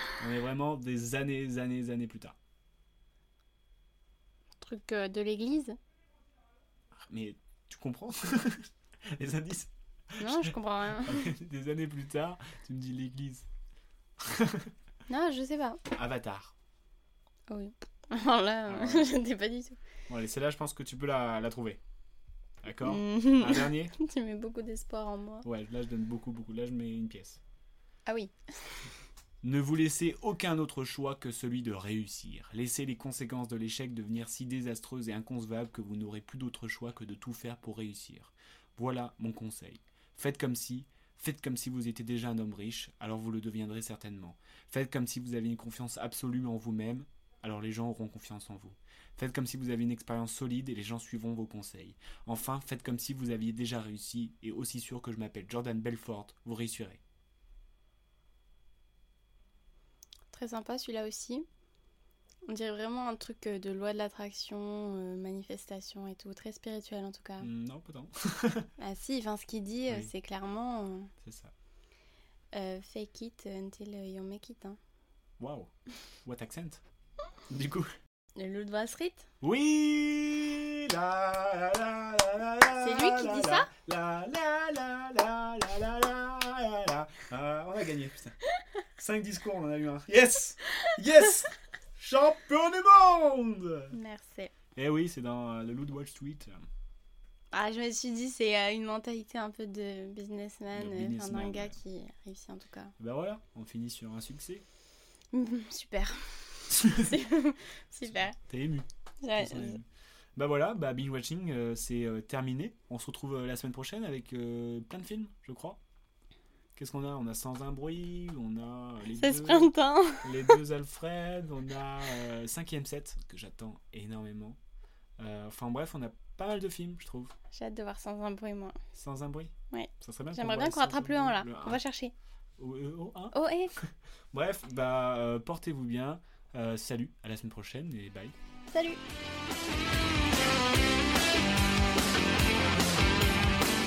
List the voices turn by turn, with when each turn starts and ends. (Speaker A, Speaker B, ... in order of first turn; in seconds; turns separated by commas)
Speaker A: 0.2-2.4, Speaker B: 4.6-5.8, Speaker A: 6.9-13.5, Speaker B: 10.2-11.3, Speaker A: 14.2-14.7, Speaker B: 15.1-15.8, Speaker A: 15.9-16.5, Speaker B: 17.5-19.8, Speaker A: 18.7-19.1, Speaker A: 20.1-21.8, Speaker A: 22.6-23.9, Speaker B: 22.8-25.5, Speaker A: 25.4-27.4, Speaker B: 28.1-28.5, Speaker A: 29.4-57.0, Speaker B: 60.3-61.5, Speaker B: 62.5-67.5, Speaker A: 67.4-68.7, Speaker B: 68.8-71.1, Speaker A: 71.2-71.5, Speaker B: 72.5-74.8, Speaker A: 75.4-75.7, Speaker A: 76.2-76.8, Speaker A: 77.5-77.9, Speaker B: 78.3-79.3, Speaker A: 79.4-88.3, Speaker B: 82.8-83.7, Speaker A: 89.0-93.9, Speaker B: 93.9-94.5, Speaker A: 94.7-96.6, Speaker B: 97.5-102.9, Speaker A: 100.7-101.8, Speaker A: 103.0-104.6, Speaker B: 105.3-108.3, Speaker A: 106.7-107.1, Speaker A: 108.0-115.8, Speaker B: 109.2-109.8, Speaker A: 116.8-124.6, Speaker B: 119.2-120.6, Speaker A: 125.2-127.3, Speaker B: 127.5-128.8, Speaker A: 128.9-131.8, Speaker B: 129.7-132.1, Speaker A: 132.6-138.3, Speaker B: 133.3-133.7, Speaker B: 138.7-139.0